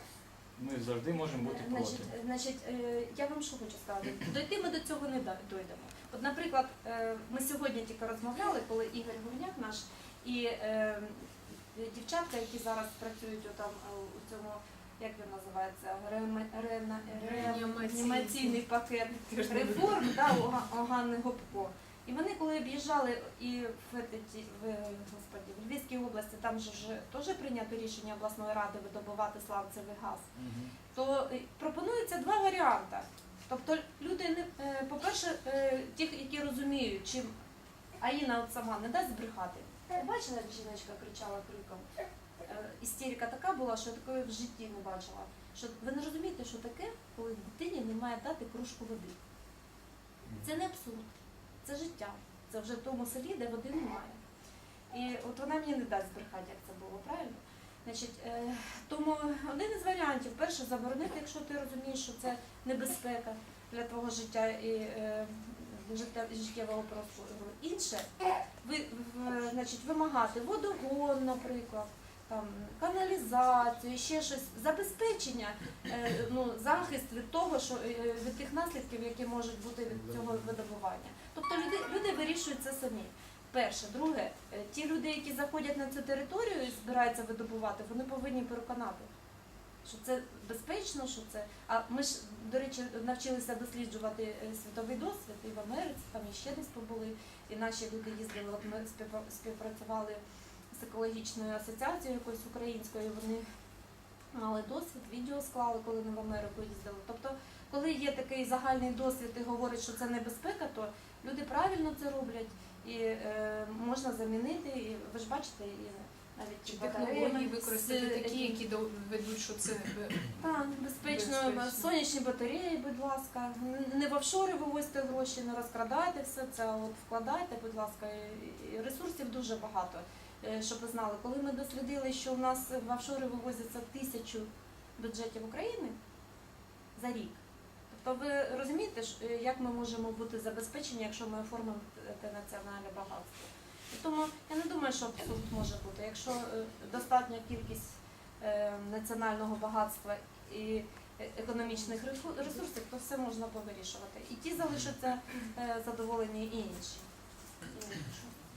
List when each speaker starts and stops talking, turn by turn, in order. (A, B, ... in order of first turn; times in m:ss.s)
0:00.6-0:02.1 A
0:01.4-0:30.3 B
0:17.2-0:18.6 C
0:19.3-0:20.3 C
0:30.4-0:30.7 A
0:30.9-0:37.3 B
0:38.0-0:41.8 B
0:42.4-0:49.2 B
0:50.4-0:51.1 B
0:51.6-0:54.2 B
0:54.9-1:08.1 B
1:08.6-1:29.1 B
1:29.8-1:43.4 B
1:44.3-1:58.6 B
1:56.6-2:00.4 C
2:00.4-2:16.0 B
2:01.0-2:01.9 C
2:17.0-2:17.4 B
2:17.9-2:37.0 B
2:37.7-2:38.3 B